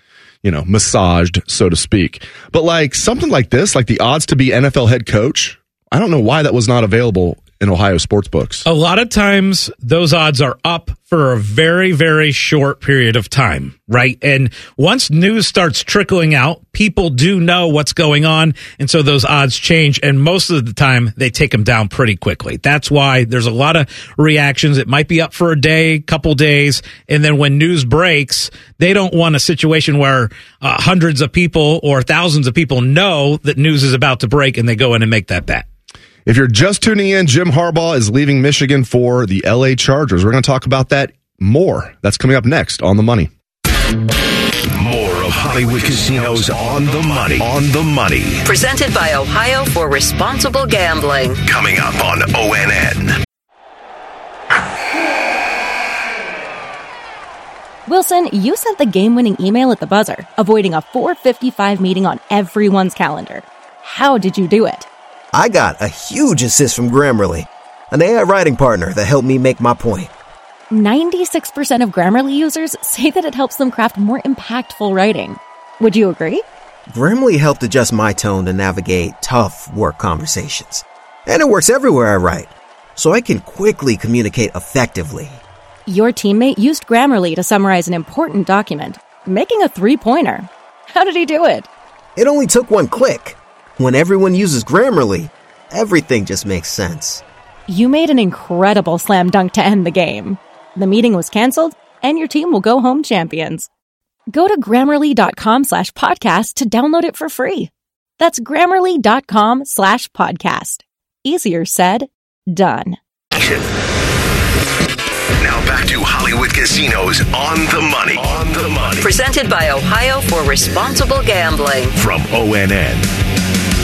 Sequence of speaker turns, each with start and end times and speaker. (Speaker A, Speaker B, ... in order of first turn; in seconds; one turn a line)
Speaker A: 0.4-8.7
Speaker B: 8.7-35.6
Speaker A: 36.2-43.3
Speaker C: 44.7-48.4
Speaker D: 48.4-51.4
Speaker C: 51.5-53.2
Speaker E: 57.9-64.9
Speaker F: 65.3-70.1
Speaker E: 70.7-76.4
Speaker F: 76.9-85.4
Speaker E: 85.9-91.7
Speaker F: 92.2-97.2
Speaker E: 97.7-103.7
Speaker E: 104.3-113.0
Speaker C: 113.3-113.7
Speaker C: 115.4-119.1
Speaker D: 119.0-121.9
Speaker C: 122.0-123.1